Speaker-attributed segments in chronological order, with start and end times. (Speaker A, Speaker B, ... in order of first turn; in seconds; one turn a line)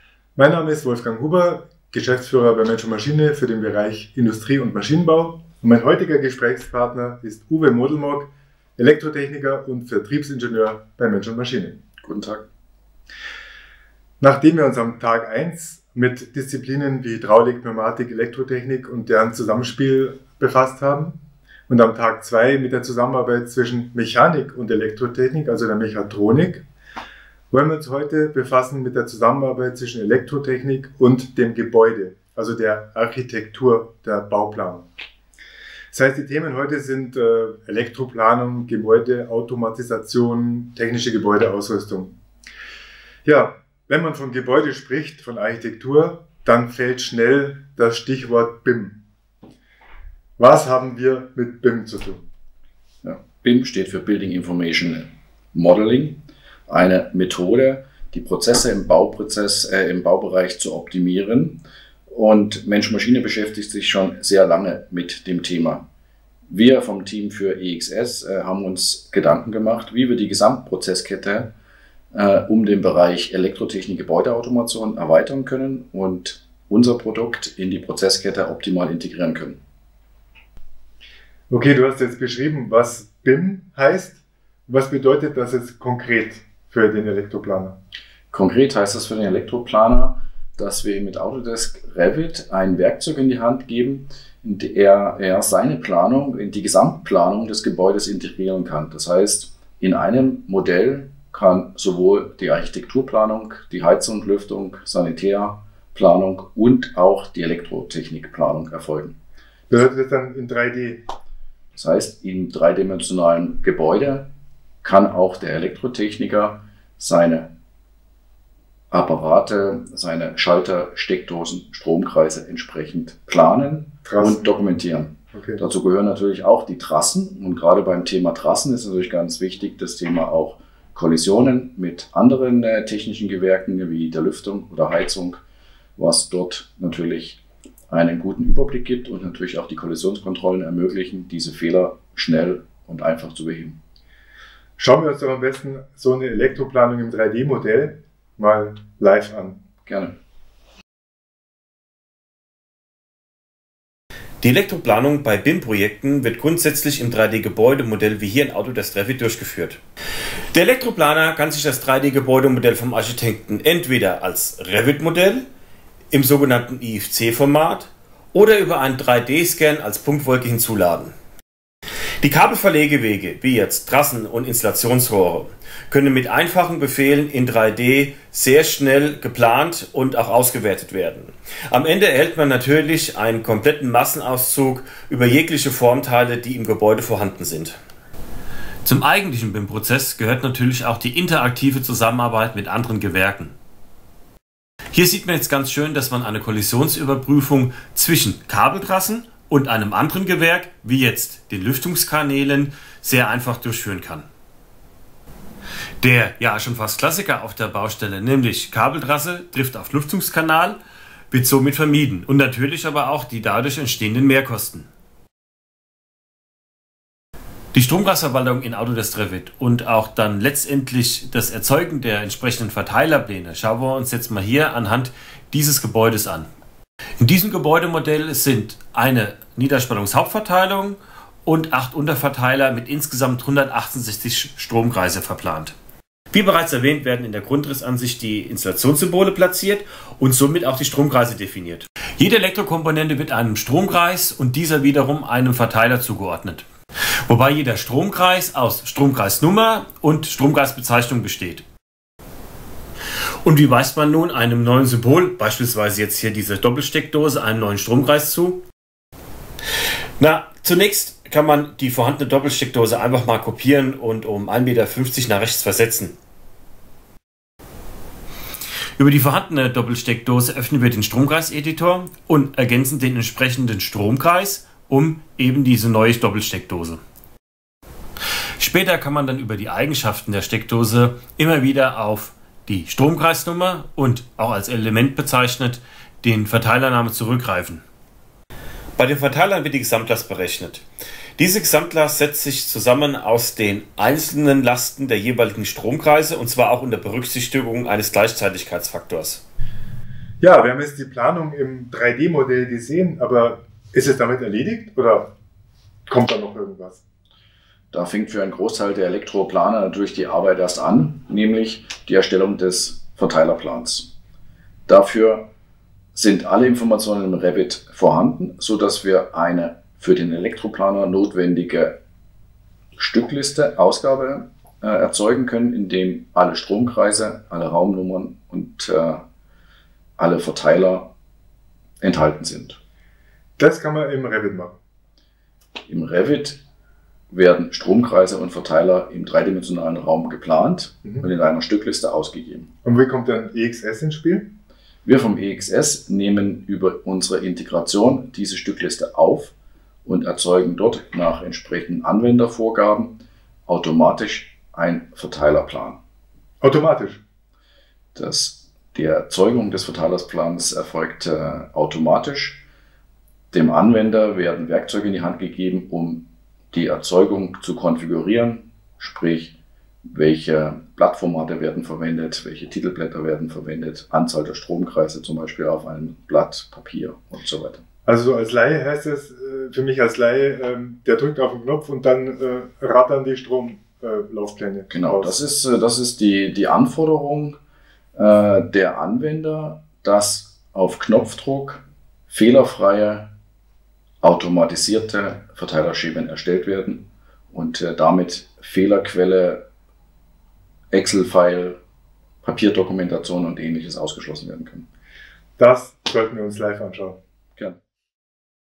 Speaker A: 0.3-11.8
Speaker B: 12.0-12.4
Speaker A: 14.2-26.6
Speaker A: 27.5-34.9
Speaker A: 35.9-42.2
Speaker A: 43.2-49.0
Speaker A: 50.4-52.3
Speaker B: 53.0-65.8
Speaker B: 66.5-71.5
Speaker B: 72.1-79.6
Speaker A: 81.5-87.8
Speaker B: 88.3-109.2
Speaker A: 109.7-111.0
Speaker B: 111.8-114.3
Speaker B: 114.8-117.5
Speaker B: 118.9-135.4
Speaker A: 124.0-124.5
Speaker A: 125.3-125.6
Speaker B: 136.0-143.8
Speaker A: 144.8-149.6
Speaker B: 149.8-150.2
Speaker C: 154.4-159.8
Speaker C: 160.5-165.4
Speaker C: 166.1-171.1
Speaker C: 172.2-187.8
Speaker C: 188.8-193.5
Speaker C: 194.9-204.2
Speaker C: 206.0-210.8
Speaker C: 211.3-214.9
Speaker C: 217.7-226.5
Speaker C: 227.2-235.7
Speaker C: 236.3-246.7
Speaker C: 247.3-251.6
Speaker C: 253.4-258.6
Speaker C: 260.2-266.1
Speaker C: 269.0-277.0
Speaker C: 278.6-287.8
Speaker C: 289.0-290.8
Speaker C: 291.4-299.4
Speaker A: 300.4-305.3
Speaker A: 306.1-307.0
Speaker B: 307.9-314.1
Speaker B: 314.9-315.5
Speaker B: 316.1-322.0
Speaker B: 323.0-329.2
Speaker B: 330.2-331.1
Speaker B: 332.0-332.8
Speaker A: 333.6-334.8
Speaker B: 335.9-336.6
Speaker B: 337.3-342.7
Speaker A: 342.8-344.5
Speaker B: 345.0-356.0
Speaker A: 356.6-357.2
Speaker B: 358.1-362.6
Speaker B: 363.5-377.8
Speaker A: 378.1-385.3
Speaker B: 384.9-387.6
Speaker B: 388.1-393.3
Speaker B: 394.2-399.6
Speaker B: 400.9-401.8
Speaker B: 402.4-404.9
Speaker A: 405.6-407.2